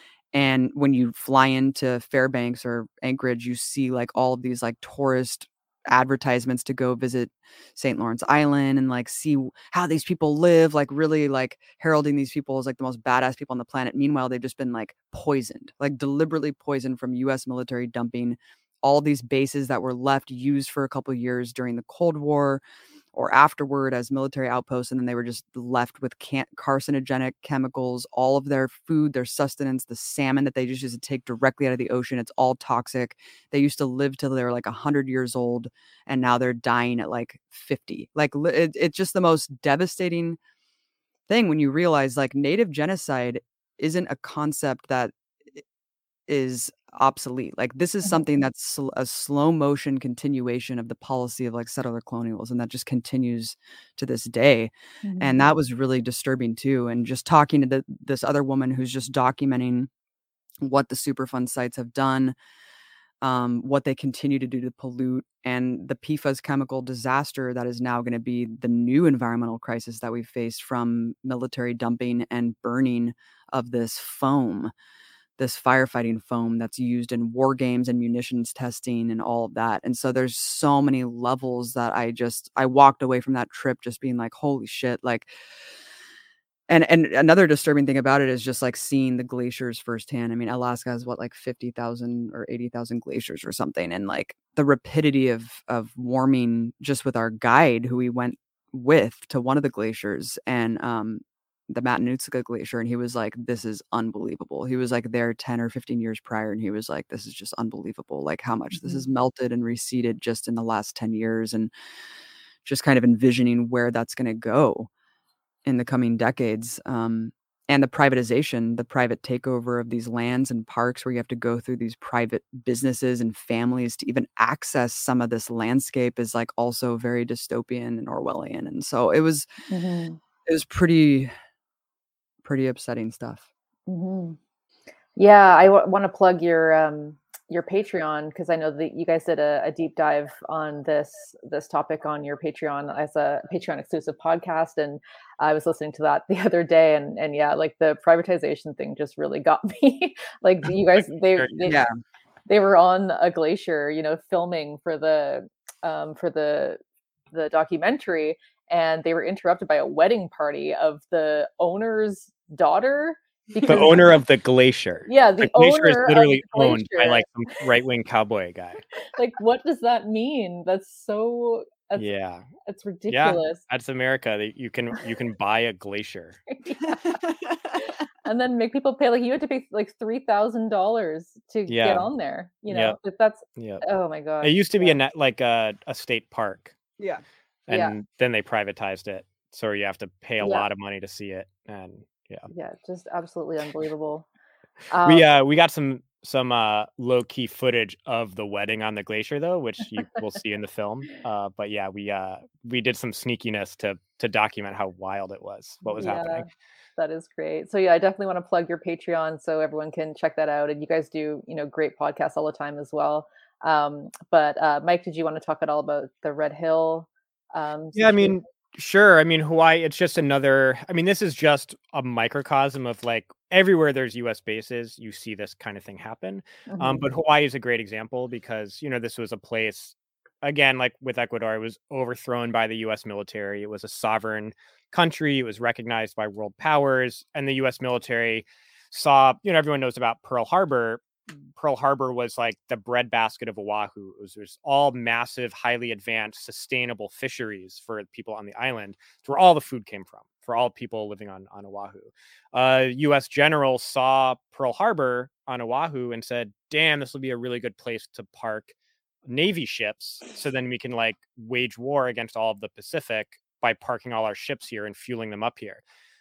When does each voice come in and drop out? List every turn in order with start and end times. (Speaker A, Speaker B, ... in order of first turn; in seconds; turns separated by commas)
Speaker A: 0.3-22.6, Speaker A: 23.1-40.4, Speaker A: 41.3-45.6, Speaker A: 46.3-59.9, Speaker B: 55.0-55.4, Speaker A: 60.6-62.4, Speaker A: 63.2-74.7, Speaker A: 75.4-85.3, Speaker A: 86.7-111.7, Speaker B: 108.7-109.0, Speaker A: 112.6-114.9, Speaker A: 115.7-129.5, Speaker B: 129.7-130.2, Speaker A: 130.4-131.3, Speaker A: 132.4-133.4, Speaker B: 133.9-134.4, Speaker B: 135.2-151.8, Speaker A: 151.6-151.9, Speaker B: 152.5-156.8, Speaker B: 157.3-164.0, Speaker C: 163.7-168.8, Speaker B: 165.1-167.2, Speaker B: 169.0-172.1, Speaker C: 172.0-172.4, Speaker B: 172.7-173.6, Speaker C: 173.1-176.4, Speaker B: 176.5-177.2, Speaker A: 177.2-177.8, Speaker B: 178.2-185.0, Speaker C: 181.7-182.1, Speaker C: 182.7-183.0, Speaker C: 183.6-183.8, Speaker C: 184.4-186.8, Speaker C: 187.7-192.5, Speaker B: 187.7-187.9, Speaker B: 190.4-190.7, Speaker B: 192.5-194.3, Speaker B: 194.9-195.2, Speaker C: 195.0-206.5, Speaker B: 205.9-218.4, Speaker C: 217.9-258.7, Speaker B: 226.7-227.1, Speaker C: 259.3-265.8